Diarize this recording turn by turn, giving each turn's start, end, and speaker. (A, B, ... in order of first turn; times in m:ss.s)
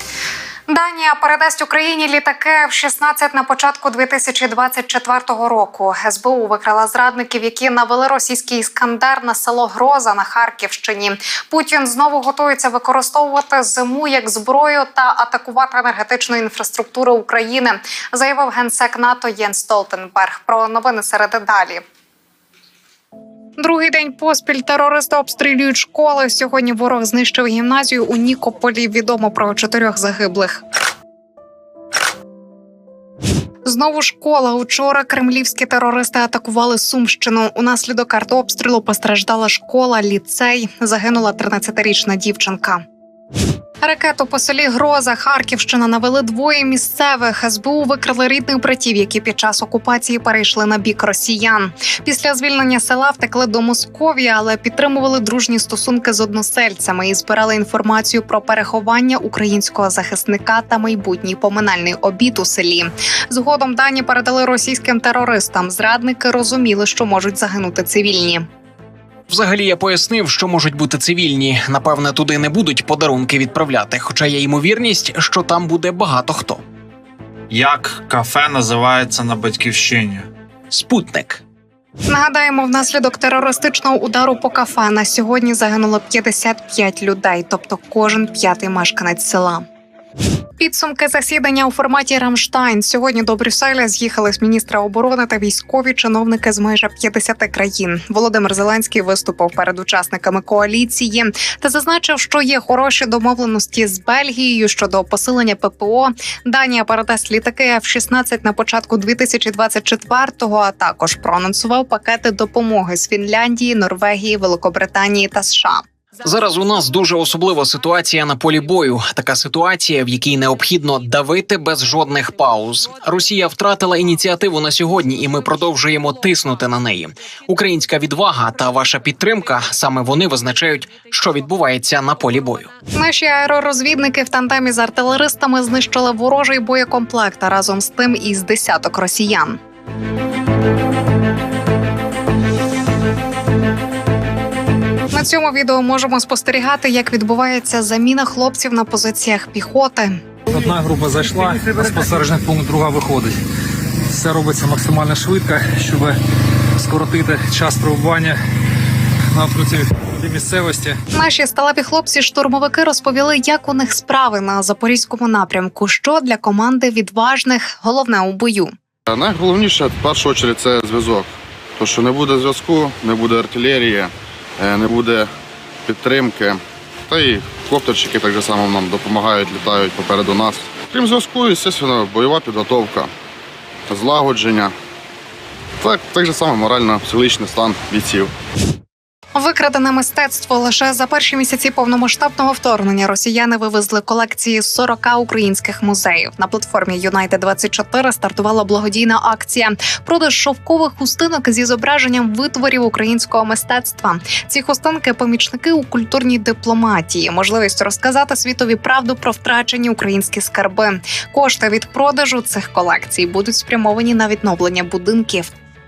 0:00.7-0:21.8 A
0:23.6-0:30.6 A
0:33.6-0:42.8 A
0:43.8-1:08.5 A
1:09.3-1:16.6 B
1:17.5-1:20.3 C
1:20.7-1:21.4 B
1:22.1-1:29.6 A
1:30.6-1:55.8 A
1:56.2-2:12.7 B
2:12.9-2:19.6 A
2:25.1-2:30.2 A
2:30.9-2:32.9 D
2:34.5-2:35.4 D
2:37.0-2:38.2 D
2:41.1-2:48.7 A
2:49.0-2:55.3 E
2:55.8-3:03.1 E
3:03.9-3:04.8 E
3:05.8-3:08.3 E
3:09.3-3:35.5 A